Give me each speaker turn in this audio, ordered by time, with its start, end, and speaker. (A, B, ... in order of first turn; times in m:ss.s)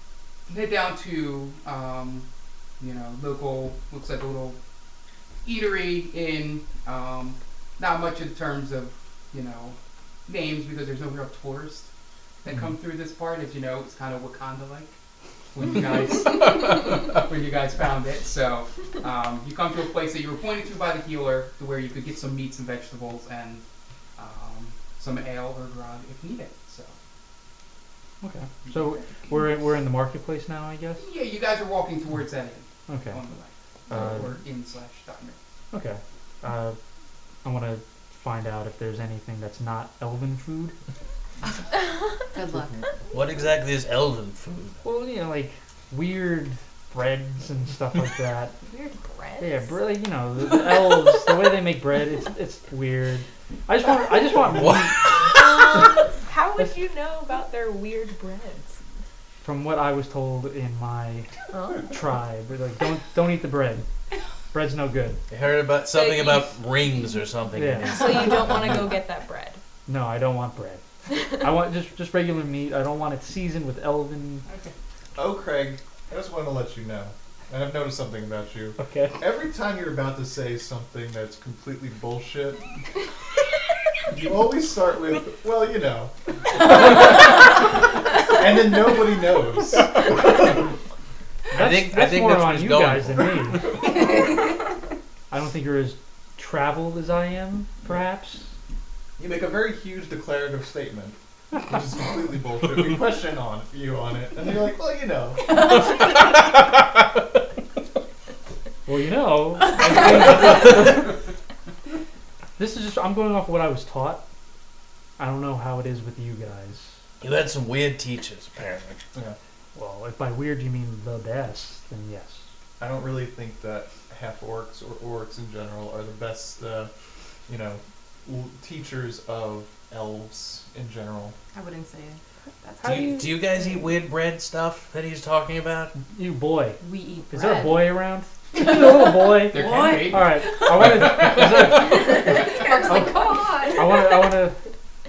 0:00.5-0:02.2 A
0:02.8-0:04.6 A
0:05.4-0:09.8 A
0:10.3-0:11.9 A
0:12.4-0:14.9 A
0:15.5-0:23.6 A
0:24.2-0:26.9 A
0:28.2-0:31.1 B
0:31.0-0:35.4 A
0:32.9-0:33.2 B
0:33.9-0:34.3 B
0:35.7-0:36.8 B
0:37.4-0:40.7 B
0:42.3-0:42.8 C
0:43.1-0:44.8 D
0:44.8-0:48.6 B
0:48.6-0:49.8 E
0:49.4-0:55.9 B
0:54.4-0:55.4 D
0:55.2-0:58.8 E
0:59.4-1:03.8 B
1:01.5-1:01.9 E
1:04.5-1:05.2 B
1:05.3-1:08.9 D
1:05.9-1:07.2 E
1:07.5-1:08.0 B
1:07.9-1:09.6 E
1:09.8-1:14.4 B
1:11.1-1:11.4 E
1:14.4-1:14.7 A
1:15.2-1:22.6 F
1:18.8-1:19.2 B
1:24.0-1:27.7 F
1:28.2-1:30.5 F
1:31.5-1:33.7 B
1:31.5-1:33.6 D
1:35.3-1:38.5 B
1:39.2-1:45.6 F
1:48.8-1:51.2 B
1:52.6-1:54.2 B
1:55.2-1:56.9 B
1:57.2-1:59.0 D
1:59.7-2:02.4 B
2:02.8-2:06.9 F
2:07.5-2:11.4 F
2:11.5-2:13.2 C
2:12.8-2:13.5 B
2:12.8-2:15.9 D
2:16.0-2:24.6 B
2:16.8-2:17.9 C
2:19.4-2:20.3 A
2:19.5-2:20.1 C
2:19.6-2:20.1 E
2:20.9-2:21.5 A
2:21.8-2:24.2 E
2:22.3-2:23.8 C